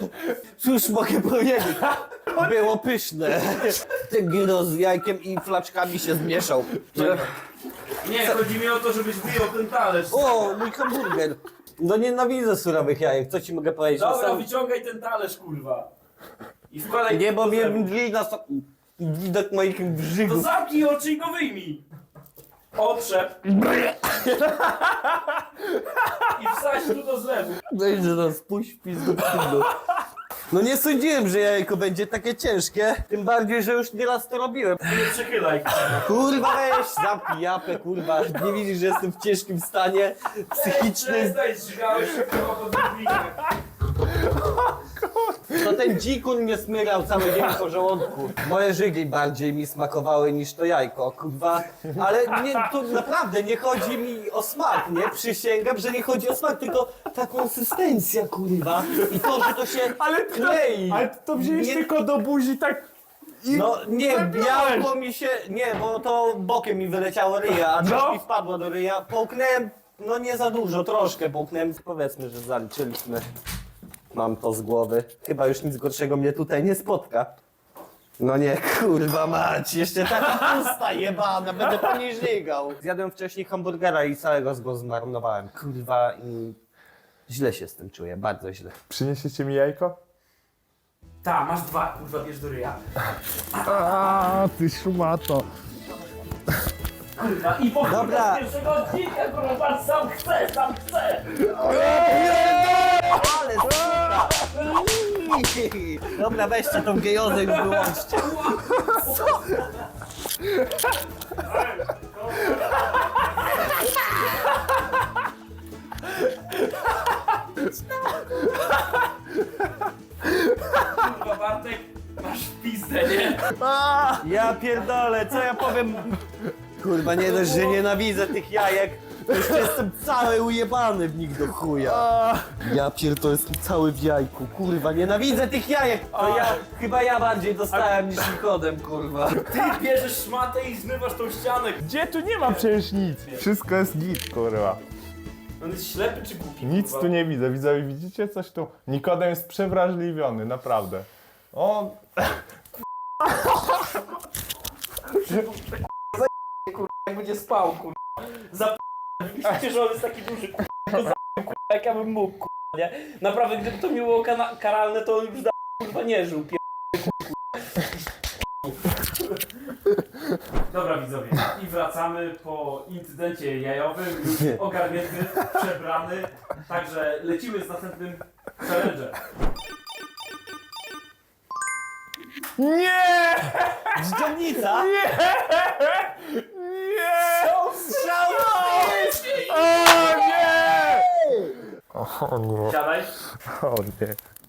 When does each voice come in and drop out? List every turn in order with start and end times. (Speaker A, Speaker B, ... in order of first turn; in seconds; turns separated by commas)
Speaker A: 0.6-7.2, Speaker B: 6.9-7.3, Speaker B: 8.0-10.6, Speaker A: 10.1-14.5, Speaker B: 13.9-15.9, Speaker B: 16.7-17.9, Speaker A: 17.1-20.6, Speaker B: 20.2-21.8, Speaker B: 22.8-23.5, Speaker A: 23.6-24.6, Speaker C: 25.5-26.3, Speaker B: 26.3-27.6, Speaker A: 27.7-29.7, Speaker A: 30.5-35.1, Speaker B: 34.9-36.4, Speaker A: 36.0-41.4, Speaker B: 40.5-43.5, Speaker C: 44.0-46.0, Speaker A: 45.6-61.9, Speaker C: 51.9-52.8, Speaker C: 59.0-62.9, Speaker C: 63.4-65.0, Speaker A: 63.5-73.2, Speaker C: 67.7-68.2, Speaker A: 74.1-77.4, Speaker A: 78.2-86.6, Speaker C: 81.7-82.0, Speaker A: 87.3-88.8, Speaker C: 88.9-90.0, Speaker B: 91.2-92.8, Speaker C: 93.6-95.5, Speaker B: 97.2-101.4, Speaker A: 97.9-98.5, Speaker C: 101.4-104.5, Speaker A: 101.6-109.4, Speaker B: 107.2-109.8, Speaker C: 110.4-110.9, Speaker B: 111.2-114.6, Speaker C: 118.1-120.9, Speaker B: 120.9-123.5, Speaker C: 123.5-124.6, Speaker A: 124.2-126.2, Speaker A: 126.8-132.1, Speaker B: 127.4-127.8, Speaker C: 129.3-129.8, Speaker C: 131.8-132.8, Speaker A: 132.6-139.5, Speaker B: 136.1-136.6, Speaker B: 139.4-141.9, Speaker C: 141.8-144.8, Speaker B: 142.4-142.7, Speaker B: 145.6-147.1, Speaker C: 146.6-152.5, Speaker B: 155.2-167.8, Speaker B: 170.7-179.2, Speaker C: 182.6-191.1, Speaker A: 183.9-184.9, Speaker B: 187.2-189.5, Speaker A: 187.9-189.9, Speaker A: 190.9-191.5, Speaker C: 191.9-192.8, Speaker B: 192.7-193.1, Speaker C: 193.4-194.2